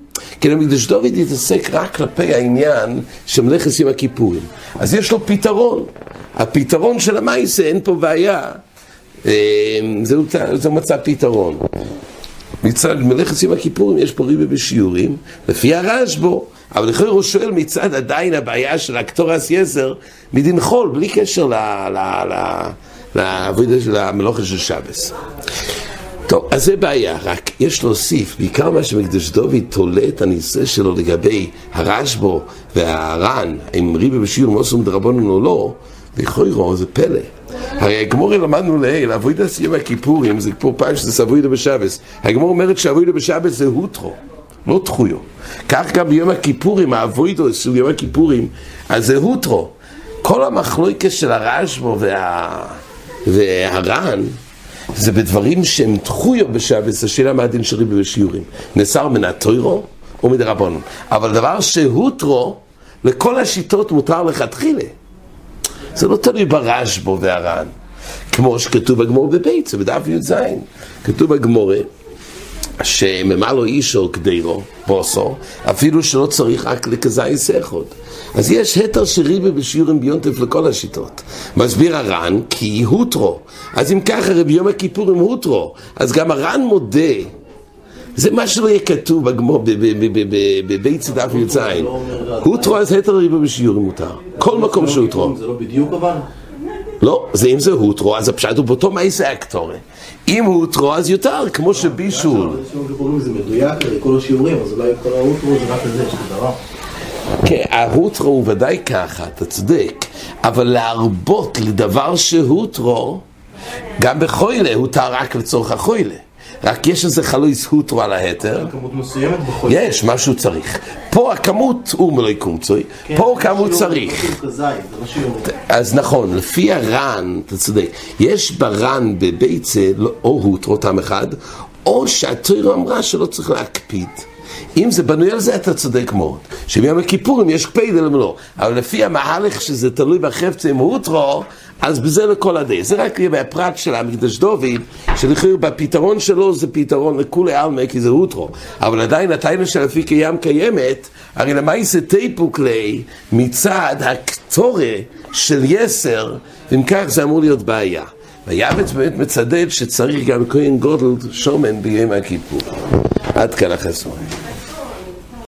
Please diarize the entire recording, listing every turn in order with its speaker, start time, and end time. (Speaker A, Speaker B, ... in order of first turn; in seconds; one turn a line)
Speaker A: 0.4-8.6
Speaker A: 9.2-11.7
Speaker A: 12.6-25.1
Speaker A: 26.3-54.4
Speaker A: 54.9-64.9
Speaker A: 65.9-67.7
Speaker A: 68.3-71.9
Speaker A: 72.8-87.3
Speaker A: 88.2-95.3
Speaker B: 91.1-92.8
Speaker B: 94.4-96.3
Speaker A: 97.0-102.6
Speaker B: 101.8-106.6
Speaker A: 107.4-113.2
Speaker A: 114.0-118.7
Speaker B: 118.5-120.1
Speaker A: 119.7-124.3
Speaker B: 123.1-125.5
Speaker A: 125.5-162.7
Speaker A: 163.3-164.3